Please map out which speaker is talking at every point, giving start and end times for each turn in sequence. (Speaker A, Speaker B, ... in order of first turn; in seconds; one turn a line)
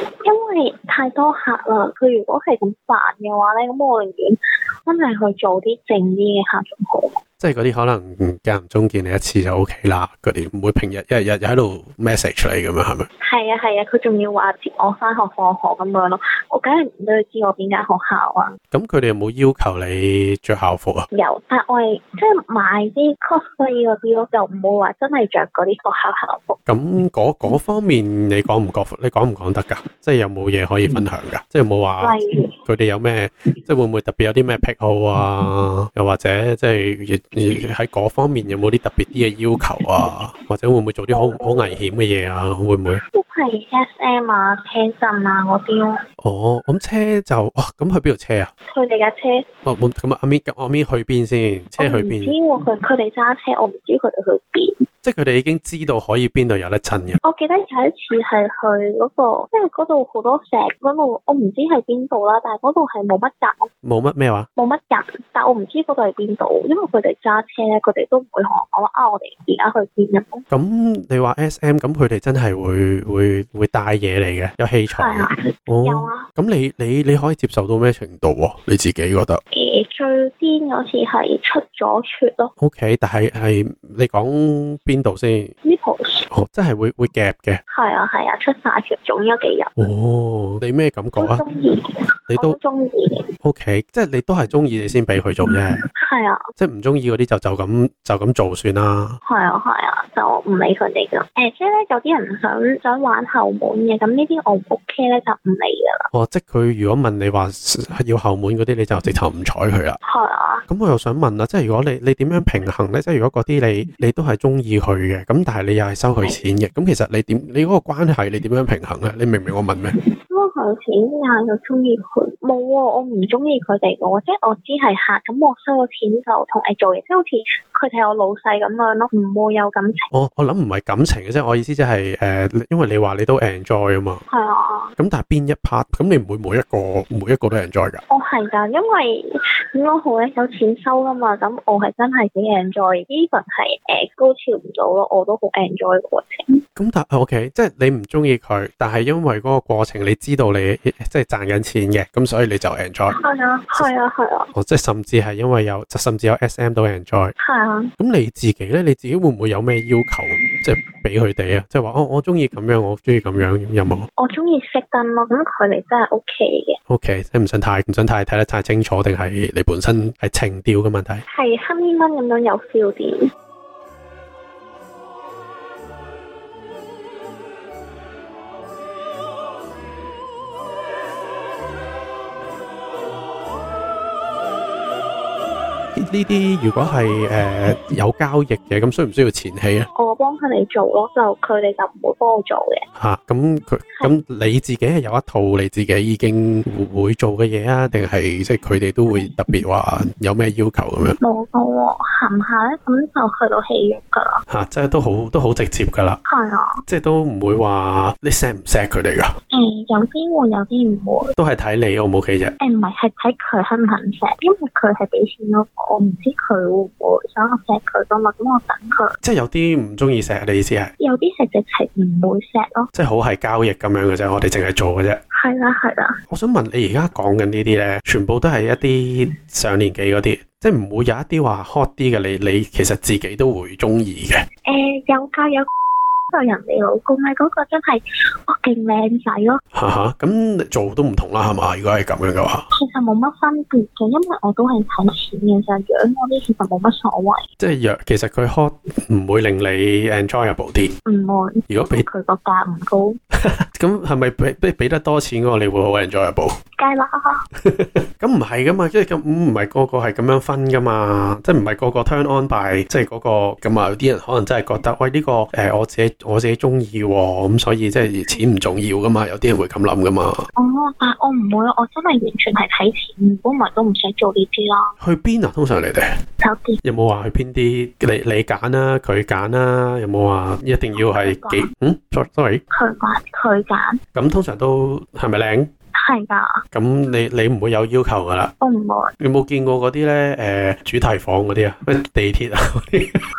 Speaker A: 0.2-7.2
Speaker B: 7.4-13.1
Speaker A: 13.2-18.6
Speaker B: 18.7-21.1
Speaker A: 21.1-26.6
Speaker B: 26.7-43.0
Speaker A: 32.0-32.6
Speaker A: 41.1-41.7
Speaker A: 43.0-46.0
Speaker B: 46.2-48.5
Speaker A: 48.7-49.5
Speaker B: 49.6-52.3
Speaker A: 51.8-54.9
Speaker B: 55.0-57.2
Speaker A: 57.2-63.7
Speaker B: 63.8-64.5
Speaker A: 64.6-70.5
Speaker B: 70.5-79.4
Speaker A: 74.9-76.3
Speaker A: 79.5-82.5
Speaker B: 82.6-85.5
Speaker A: 85.6-86.3
Speaker B: 86.3-87.6
Speaker A: 87.7-89.8
Speaker B: 89.8-91.4
Speaker A: 91.2-93.3
Speaker B: 92.3-92.6
Speaker B: 93.4-95.8
Speaker A: 95.5-96.4
Speaker B: 96.6-99.2
Speaker A: 99.2-106.1
Speaker B: 106.1-110.0
Speaker A: 110.0-110.7
Speaker B: 110.7-119.9
Speaker A: 120.3-130.1
Speaker B: 130.1-134.2
Speaker A: 134.3-134.9
Speaker B: 135.0-138.0
Speaker A: 138.1-146.6
Speaker B: 146.8-153.2
Speaker A: 153.1-154.5
Speaker B: 154.5-157.3
Speaker A: 157.4-157.9
Speaker B: 158.0-164.1
Speaker A: 164.2-166.8
Speaker B: 166.9-171.2
Speaker A: 171.3-173.3
Speaker B: 185.9-189.9
Speaker A: 190.0-192.8
Speaker B: 193.0-201.2
Speaker A: 201.2-204.4
Speaker B: 204.5-206.2
Speaker A: 206.3-206.8
Speaker B: 206.9-209.3
Speaker A: 209.5-211.3
Speaker B: 211.4-212.5
Speaker A: 212.6-219.2
Speaker B: 219.2-220.9
Speaker A: 221.0-222.9
Speaker B: 222.9-225.2
Speaker A: 225.3-226.2
Speaker B: 226.3-234.4
Speaker A: 234.7-235.7
Speaker A: 236.3-239.6
Speaker B: 239.7-242.7
Speaker A: 242.7-247.5
Speaker B: 247.6-250.9
Speaker A: 251.1-253.2
Speaker B: 251.7-252.1
Speaker B: 253.3-256.6
Speaker A: 256.8-257.4
Speaker B: 257.6-270.5
Speaker A: 270.6-274.9
Speaker B: 275.0-276.2
Speaker A: 276.4-276.8
Speaker B: 276.8-282.6
Speaker A: 281.0-281.7
Speaker A: 282.7-284.0
Speaker B: 284.1-285.7
Speaker A: 285.9-286.6
Speaker B: 286.7-288.5
Speaker A: 288.6-289.1
Speaker B: 289.2-293.3